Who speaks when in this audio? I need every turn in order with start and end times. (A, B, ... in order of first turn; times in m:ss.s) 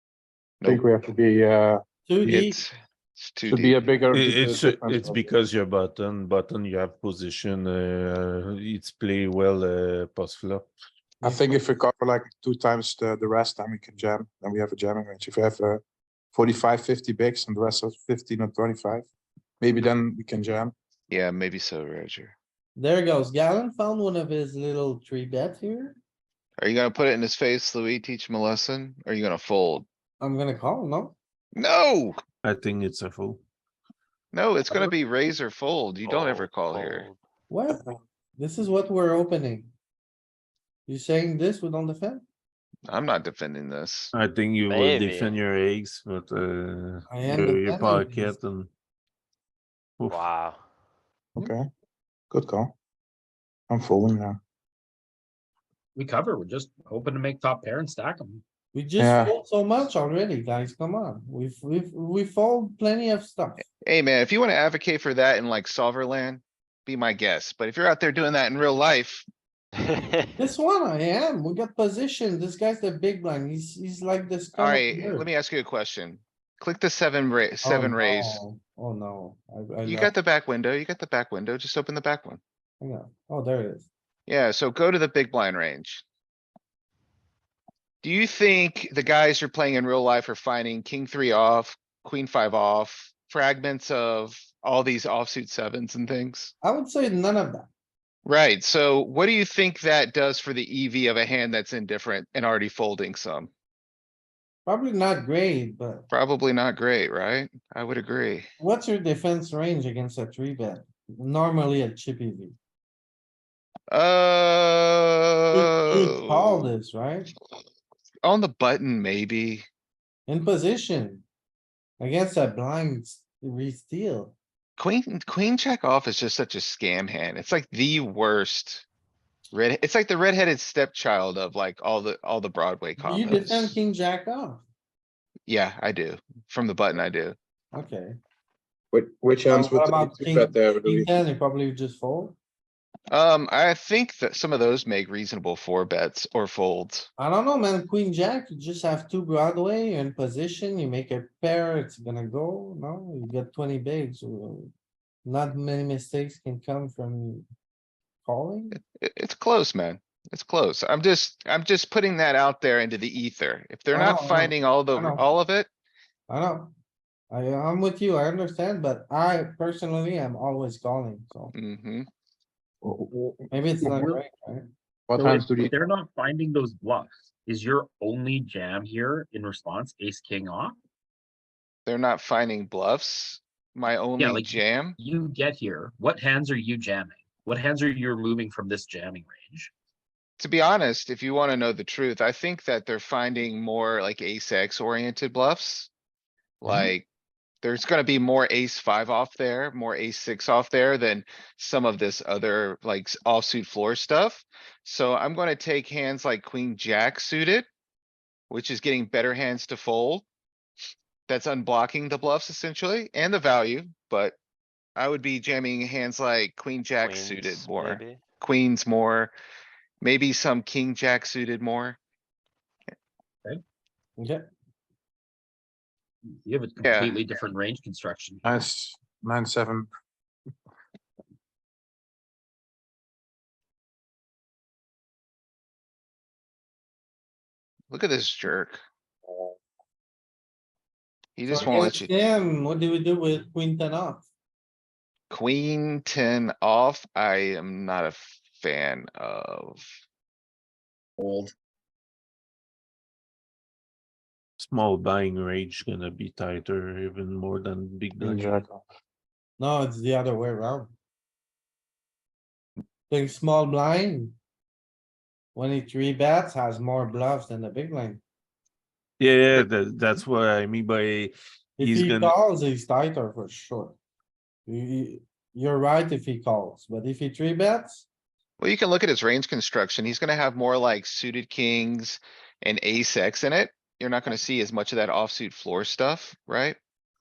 0:00.7-0:01.8 A
0:02.1-0:02.6 B
0:02.2-0:03.9 C
0:03.4-0:05.3 A
0:04.1-0:10.7 D
0:11.2-0:11.6 B
0:11.2-0:19.1 A
0:19.6-0:20.7 A
0:21.1-0:22.4 C
0:22.8-0:26.0 B
0:26.6-0:29.8 C
0:30.2-0:31.1 B
0:31.6-0:32.2 C
0:32.4-0:33.4 D
0:34.3-0:37.1 C
0:36.0-0:37.2 E
0:37.5-0:39.7 B
0:40.9-0:42.2 B
0:42.9-0:44.1 C
0:44.1-0:48.7 D
0:44.7-0:45.4 E
0:47.1-0:48.4 B
0:50.0-0:50.3 D
0:50.1-0:50.6 E
0:51.4-0:51.7 A
0:52.3-0:52.7 A
0:53.7-0:54.4 A
0:56.0-0:58.4 F
0:58.7-1:03.6 B
0:59.0-0:59.4 A
1:03.8-1:09.3 C
1:09.9-1:10.3 E
1:10.4-1:15.3 B
1:14.6-1:18.4 C
1:17.6-1:20.1 B
1:19.8-1:22.4 C
1:22.8-1:23.9 B
1:24.3-1:26.0 C
1:28.0-1:36.5 C
1:36.6-1:37.7 B
1:38.2-1:43.5 C
1:44.7-1:46.1 B
1:46.1-1:48.5 C
1:48.6-1:52.6 B
1:53.9-1:56.7 C
1:55.5-1:57.3 B
1:58.2-1:59.7 C
2:00.3-2:01.2 B
2:02.0-2:04.4 B
2:04.8-2:08.8 C
2:09.5-2:13.8 C
2:13.0-2:14.6 B
2:15.5-2:17.4 C
2:17.7-2:18.2 B
2:18.9-2:21.2 A
2:19.4-2:22.4 B
2:23.1-2:27.1 C
2:27.2-2:34.7 B
2:35.2-2:37.5 B
2:38.2-2:38.8 B
2:38.8-2:45.7 C
2:43.9-2:45.2 B
2:46.3-2:46.7 B
2:47.3-2:51.5 B
2:51.5-2:52.1 C
2:52.8-2:53.9 A
2:53.5-2:54.7 B
2:53.8-2:54.2 F
2:55.1-2:55.7 A
2:55.1-3:00.8 F
3:01.9-3:05.0 C
3:04.2-3:09.7 F
3:10.4-3:15.9 C
3:16.6-3:17.1 C
3:17.6-3:27.7 C
3:28.5-3:30.2 C
3:31.3-3:34.4 C
3:35.0-3:39.3 C
3:37.0-3:38.2 E
3:40.0-3:42.0 C
3:44.2-3:44.4 B
3:46.4-3:48.4 F
3:46.8-3:47.2 C
3:48.4-3:49.9 A
3:57.9-3:58.8 C
4:01.4-4:02.1 C
4:01.5-4:04.3 B
4:05.3-4:09.8 C
4:11.2-4:11.5 F
4:14.6-4:18.6 D
4:18.2-4:18.8 A
4:19.6-4:20.9 B
4:23.1-4:24.4 B
4:25.5-4:28.2 B
4:29.2-4:32.4 D
4:31.8-4:34.0 B
4:34.7-4:38.1 B
4:38.6-4:46.8 C